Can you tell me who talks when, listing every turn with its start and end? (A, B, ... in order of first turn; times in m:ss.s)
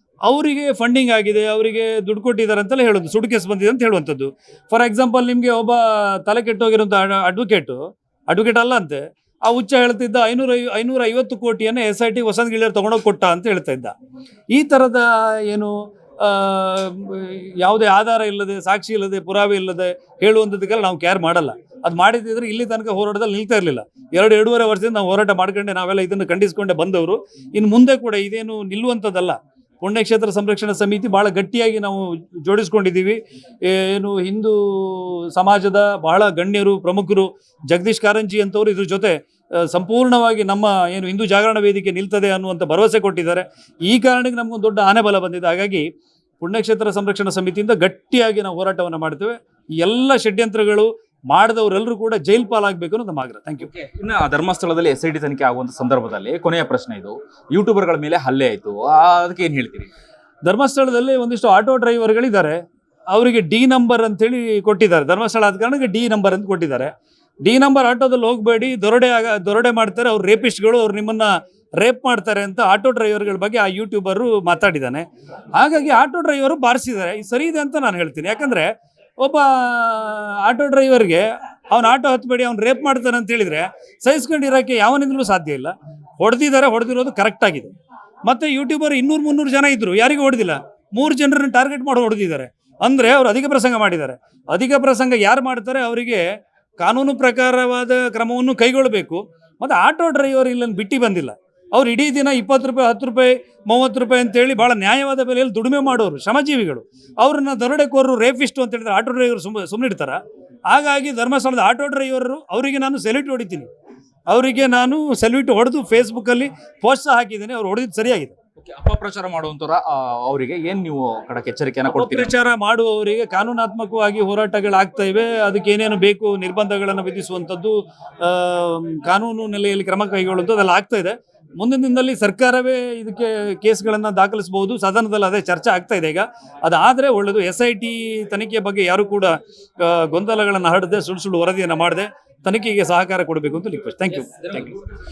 0:00.3-0:13.9 A
0:14.5-0:45.8 A
0:46.4-0:53.7 A
0:53.6-0:59.9 B
1:00.4-1:02.6 A
1:03.1-1:06.9 A
1:07.4-1:27.7 A
1:28.3-1:36.2 A
1:36.8-1:53.7 A
1:54.3-1:58.3 A
1:58.6-2:02.3 B
2:01.9-2:24.7 A
2:24.1-2:24.8 B